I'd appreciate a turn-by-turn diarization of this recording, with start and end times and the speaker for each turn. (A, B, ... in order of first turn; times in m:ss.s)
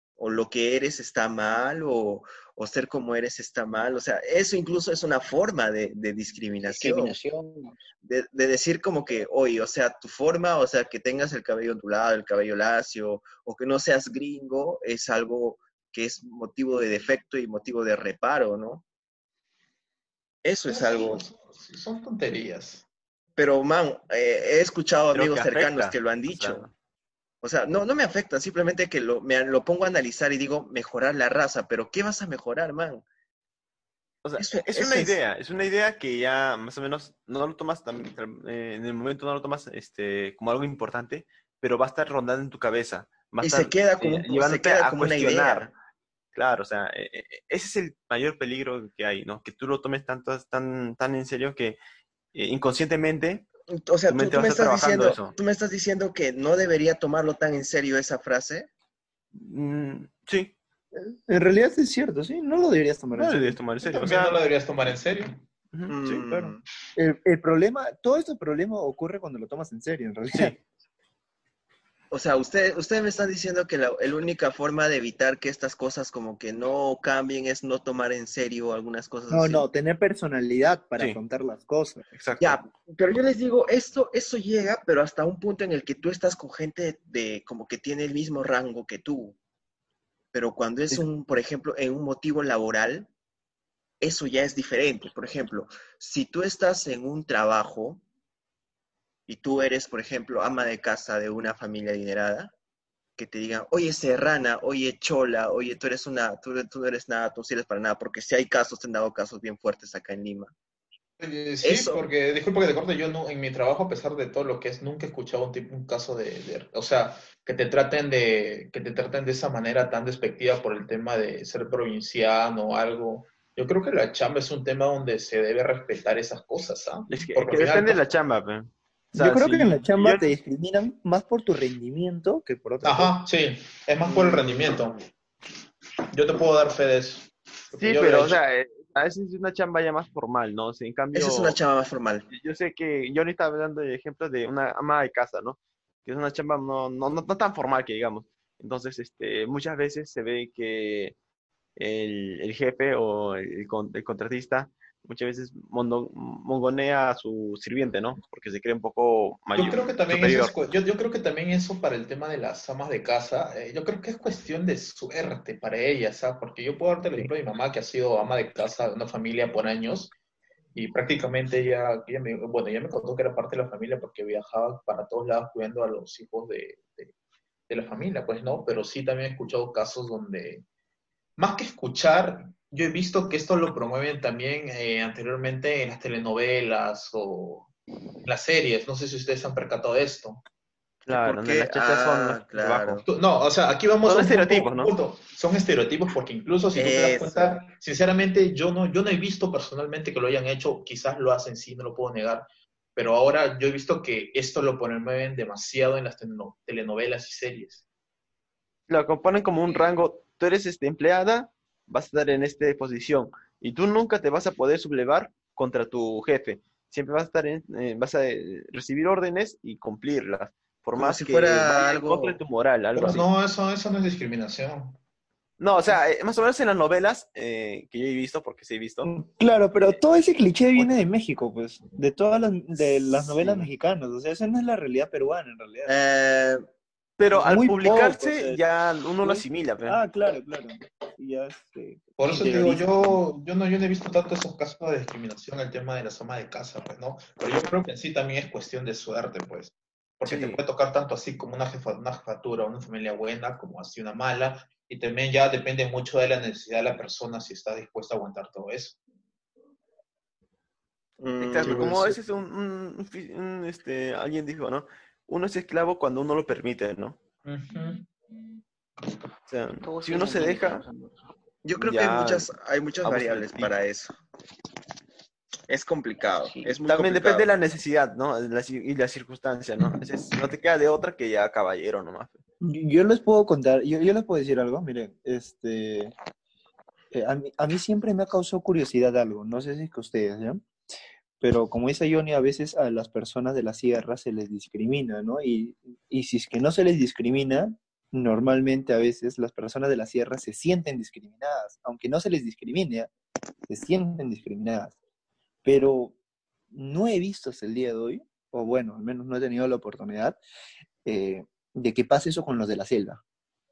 0:00.2-0:07.2 A
0:06.7-0:07.7 B
0:08.0-0:18.8 A
0:20.4-0:21.2 A
0:20.7-0:22.8 C
0:23.4-0:26.7 A
0:25.1-0:26.7 D
0:27.4-0:33.0 A
0:34.2-0:45.7 D
0:34.4-0:35.2 A
0:43.4-0:45.7 A
0:46.3-0:51.8 D
0:52.3-0:53.5 D
0:53.7-0:58.7 A
0:54.1-0:55.4 D
0:59.3-1:00.5 D
1:00.9-1:03.6 E
1:03.2-1:04.4 D
1:03.8-1:05.4 C
1:05.7-1:06.2 D
1:05.9-1:06.6 A
1:06.2-1:10.6 E
1:12.1-1:19.6 A
1:19.3-1:22.1 E
1:22.1-1:22.6 D
1:22.4-1:29.4 A
1:30.3-1:33.1 A
1:34.0-1:38.0 A
1:39.3-1:42.5 A
1:43.2-1:50.5 A
1:51.2-2:08.0 C
1:51.6-1:52.0 A
2:07.1-2:10.3 D
2:09.1-2:13.1 E
2:12.8-2:15.0 C
2:14.2-2:14.4 A
2:16.1-2:18.4 C
2:17.7-2:21.6 D
2:21.1-2:22.3 A
2:22.3-2:31.2 D
2:31.8-2:40.5 D
2:39.5-2:50.1 C
2:50.7-2:57.1 C
2:57.7-3:00.6 C
3:01.4-3:07.7 C
3:08.2-3:10.4 C
3:11.1-3:13.0 D
3:11.1-3:13.0 A
3:13.0-3:27.8 C
3:14.0-3:14.9 D
3:16.7-3:17.6 A
3:28.9-3:43.3 D
3:41.0-3:42.4 A
3:42.9-3:45.0 C
3:45.6-3:49.1 D
3:49.0-3:55.9 E
3:55.8-3:56.6 A
3:57.2-4:00.0 D
3:57.3-3:58.6 E
3:59.2-4:03.2 E
4:02.2-4:19.0 C
4:10.3-4:10.6 D
4:21.2-4:22.2 A
4:21.4-4:27.2 D
4:27.4-4:28.1 C
4:29.5-4:30.8 D
4:29.8-4:31.2 B
4:31.6-4:34.1 A
4:31.8-4:32.5 D
4:33.0-4:33.7 D
4:35.7-4:37.5 A
4:36.4-4:36.8 B
4:36.9-4:42.4 D
4:42.6-4:46.1 E
4:47.1-4:50.6 E
4:51.4-5:03.1 E
5:03.7-5:04.9 E
5:05.6-5:06.2 E
5:06.7-5:10.4 E
5:11.0-5:13.2 E